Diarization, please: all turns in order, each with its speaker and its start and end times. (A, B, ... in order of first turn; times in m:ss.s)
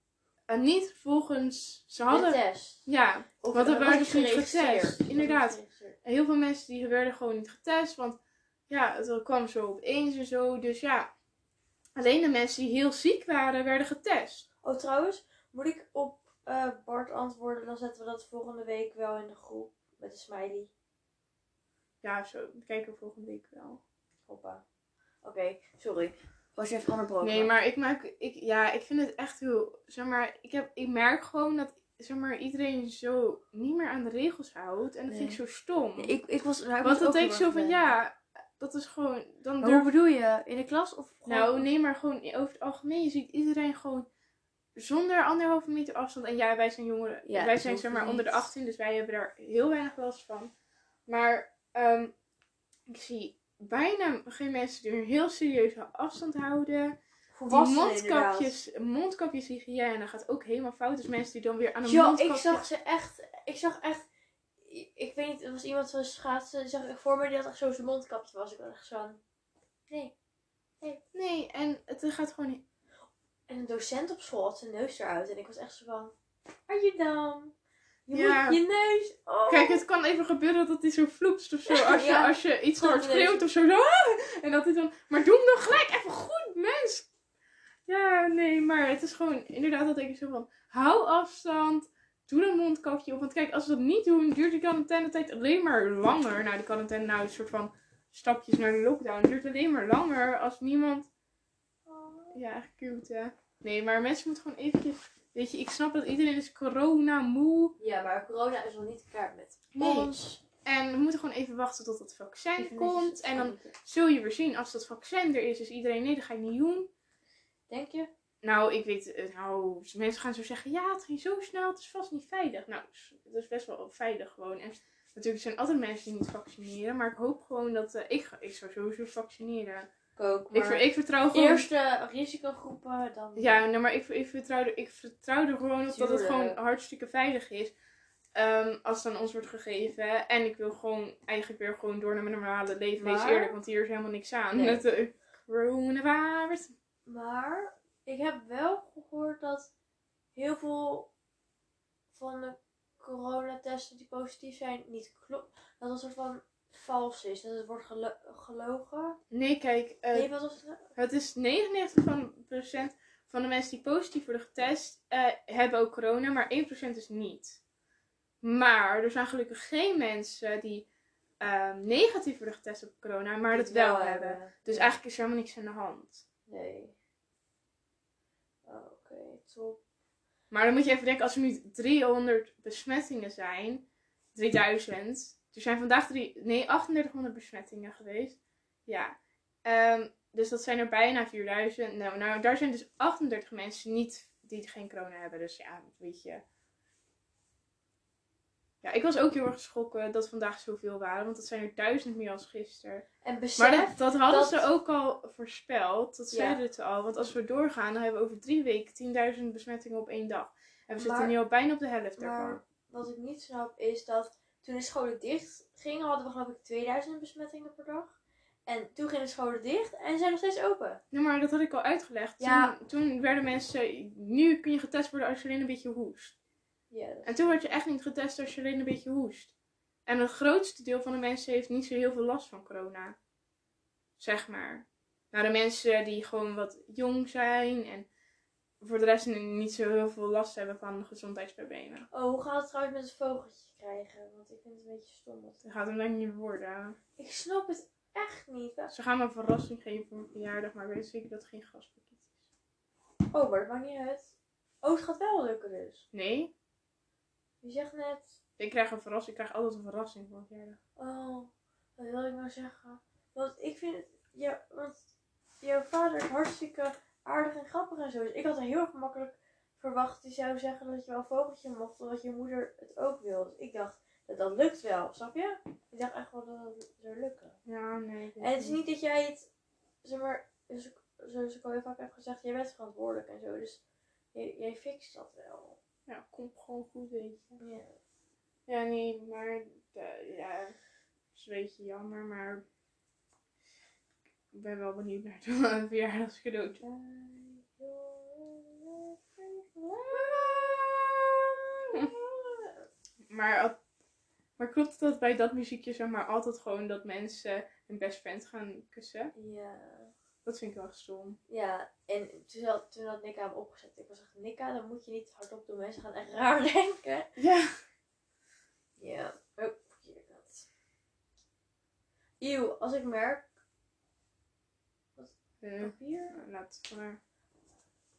0:00.5-0:08.2 A
0:02.1-0:02.9 B
0:03.4-0:06.0 B
0:08.7-0:11.1 A
0:12.0-0:14.5 A
0:14.6-0:20.7 B
0:22.0-0:23.8 A
0:24.3-0:24.6 B
0:25.2-0:27.5 B
0:27.2-0:36.2 A
0:35.1-0:35.4 B
0:36.0-0:37.9 B
0:36.8-0:39.9 A
0:39.6-0:41.7 B
0:41.2-0:44.1 A
0:44.8-0:50.5 A
0:47.2-0:48.5 B
0:51.1-0:52.1 A
0:52.9-0:57.0 A
0:57.3-0:58.6 B
0:57.5-1:02.6 A
1:01.8-1:04.0 B
1:04.6-1:09.2 B
1:11.1-1:12.6 A
1:13.5-1:16.1 B
1:16.7-1:17.5 B
1:18.1-1:19.8 B
1:18.1-1:18.6 A
1:19.5-1:27.1 A
1:21.7-1:23.4 B
1:27.8-1:41.1 A
1:41.9-1:42.4 B
1:42.3-1:47.7 A
1:47.8-1:50.4 B
1:49.7-1:50.1 A
1:50.6-1:56.9 A
1:52.6-1:53.7 B
1:57.7-1:58.1 B
1:58.4-2:09.9 A
2:10.2-2:13.6 B
2:10.5-2:11.7 A
2:13.4-2:17.7 A
2:15.9-2:16.6 B
2:18.3-2:26.7 A
2:23.0-2:23.5 B
2:24.5-2:24.8 B
2:27.0-2:29.7 B
2:30.3-2:31.1 B
2:32.1-2:39.2 B
2:39.3-2:40.3 A
2:40.1-2:40.9 B
2:41.0-2:47.6 A
2:48.4-2:50.9 A
2:51.4-2:56.2 A
2:53.5-2:55.0 B
2:56.5-2:56.9 B
2:58.6-2:59.8 B
3:00.5-3:16.4 A
3:18.8-3:23.0 A
3:23.2-3:24.6 B
3:23.6-3:32.6 A
3:26.3-3:26.6 B
3:31.0-3:31.3 B
3:32.2-3:41.0 B
3:41.1-3:46.4 A
3:42.4-3:42.7 B
3:46.9-3:47.8 B
3:47.2-3:49.5 A
3:50.0-3:53.2 A
3:54.2-3:58.1 A
3:58.8-4:02.1 A
4:02.1-4:05.6 B
4:05.6-4:07.0 A
4:07.2-4:08.9 B
4:08.9-4:12.3 A
4:13.3-4:16.0 B
4:16.1-4:16.5 A
4:17.6-4:18.4 B
4:18.6-4:20.8 A
4:21.0-4:25.1 B
4:25.6-4:37.6 B
4:37.6-4:38.8 A
4:38.4-4:39.5 B
4:40.0-4:43.8 B
4:44.3-4:45.8 B
4:46.1-4:47.6 A
4:47.6-4:47.9 B
4:48.7-4:50.7 A
4:51.3-4:52.6 A
4:54.5-4:56.8 A
4:56.8-5:02.8 B
5:03.3-5:03.8 A
5:04.6-5:09.3 A
5:09.3-5:10.1 B
5:10.4-5:11.4 A
5:11.5-5:17.3 B
5:17.4-5:17.7 A
5:19.0-5:20.6 B
5:22.4-5:23.4 B
5:25.2-5:26.4 B
5:25.6-5:27.2 A